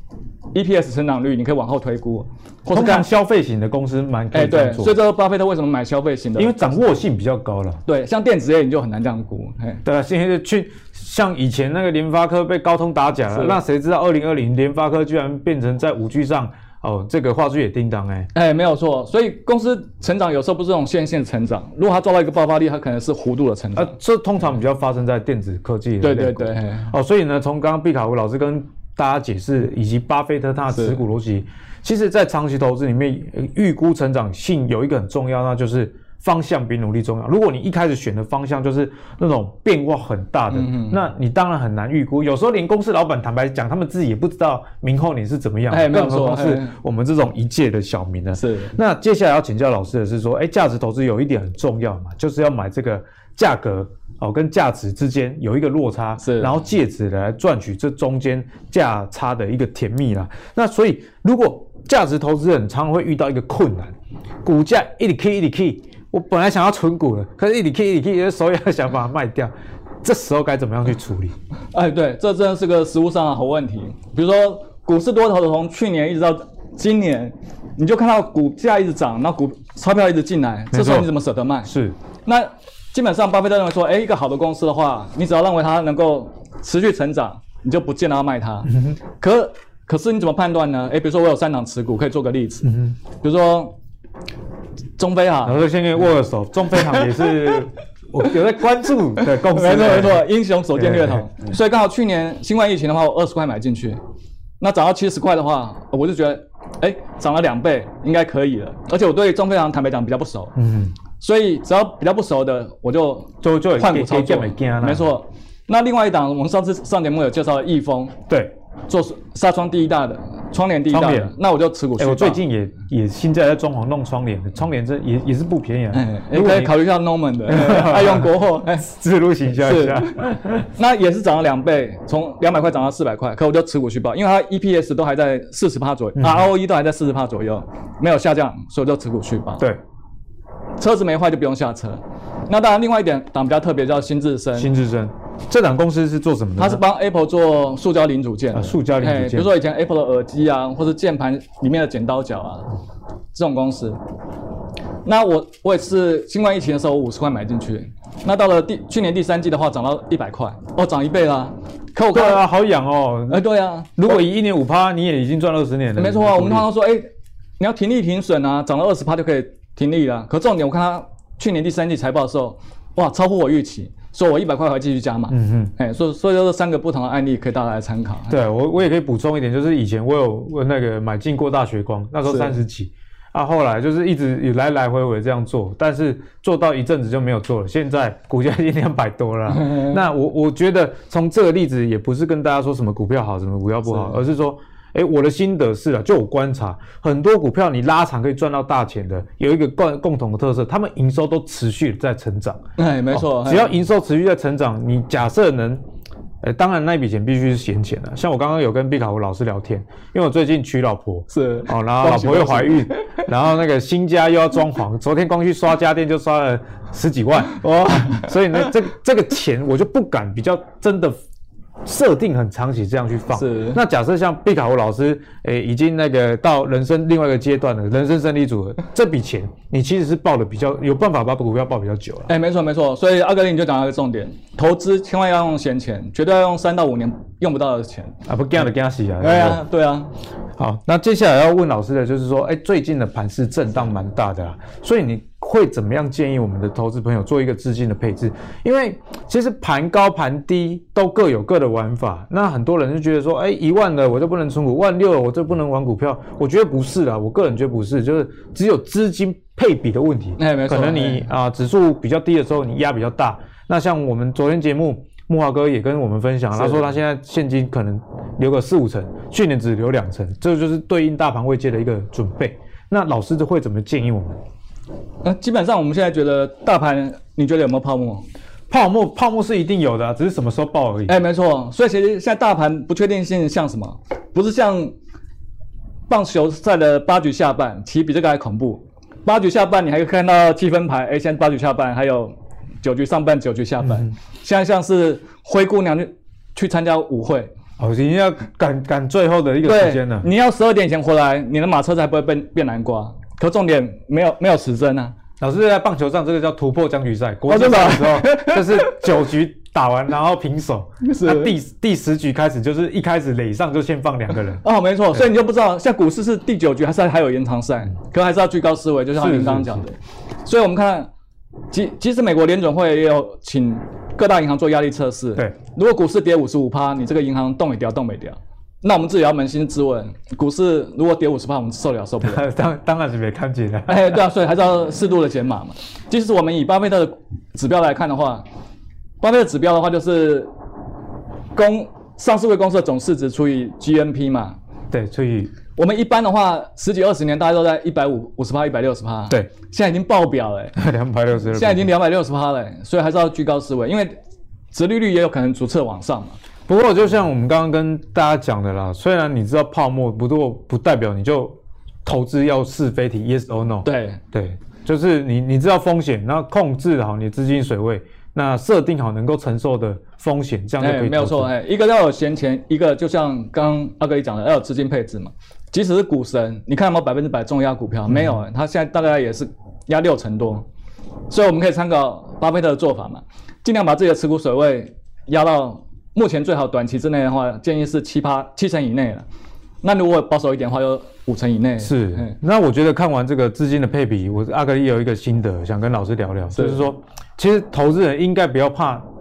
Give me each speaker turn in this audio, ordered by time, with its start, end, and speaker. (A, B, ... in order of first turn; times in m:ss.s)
0:00.5-0:03.1 A
0:02.7-0:05.0 B
0:04.3-0:06.9 A
0:06.4-0:07.8 B
0:07.9-0:09.8 A
0:09.8-0:18.3 B
0:13.3-0:13.6 A
0:18.3-0:23.9 A
0:23.8-1:09.5 B
0:26.0-0:26.9 A
0:30.7-0:31.0 A
0:40.5-0:41.0 A
0:45.7-0:46.8 A
0:48.4-0:48.8 A
0:56.2-0:56.6 A
1:10.0-1:11.4 B
1:11.7-1:21.7 A
1:20.7-1:21.1 B
1:21.6-1:22.0 B
1:22.3-1:33.8 A
1:32.7-1:32.9 B
1:35.0-1:35.6 A
1:35.4-1:41.2 B
1:39.2-1:44.0 A
1:44.6-1:50.6 A
1:50.6-1:50.9 B
1:51.2-1:58.2 A
1:53.4-1:55.1 B
1:58.3-1:58.5 B
1:58.9-2:02.4 A
2:00.9-2:01.3 B
2:02.0-2:06.8 B
2:05.9-2:08.9 A
2:07.5-2:10.7 B
2:09.6-2:10.2 A
2:10.7-2:19.7 A
2:16.2-2:16.5 B
2:20.8-2:24.7 A
2:24.6-2:26.8 B
2:26.6-2:32.7 A
2:28.5-2:29.6 B
2:33.3-2:34.0 A
2:35.0-2:42.4 A
2:42.1-2:43.4 B
2:43.3-2:44.2 A
2:44.0-2:46.7 B
2:46.0-2:47.1 A
2:47.6-2:58.4 A
2:55.3-2:55.7 B
2:58.3-3:25.8 B
3:02.3-3:02.5 A
3:09.6-3:10.0 A
3:13.9-3:14.2 A
3:22.8-3:23.7 A
3:26.4-3:41.2 B
3:31.3-3:33.2 A
3:37.6-3:38.6 A
3:41.8-3:52.3 B
3:43.4-3:43.8 A
3:52.3-3:58.2 A
3:58.3-3:59.6 B
3:59.2-4:00.1 A
4:00.6-4:34.4 B
4:20.4-4:21.2 A
4:26.6-4:26.8 A
4:35.2-4:38.2 A
4:38.7-4:41.2 B
4:41.1-4:45.0 A
4:46.1-4:57.5 A
4:57.8-5:00.3 B
4:59.6-5:05.1 A
5:05.4-5:15.2 B
5:07.5-5:09.1 A
5:11.0-5:11.5 A
5:14.6-5:21.1 A
5:19.2-5:19.8 B
5:21.7-5:32.4 A
5:32.2-5:34.2 B
5:33.9-5:38.4 A
5:39.2-5:40.5 A
5:41.6-5:44.6 A
5:44.9-5:45.5 B
5:45.8-5:50.8 A
5:50.8-5:51.9 B
5:51.5-5:54.2 A
5:54.7-5:56.4 A
5:56.7-6:11.5 B
6:03.8-6:04.2 A
6:10.8-6:20.7 A
6:18.1-6:18.4 B
6:21.3-6:29.2 A
6:29.8-6:32.4 A
6:31.8-6:39.0 B
6:36.5-6:36.8 A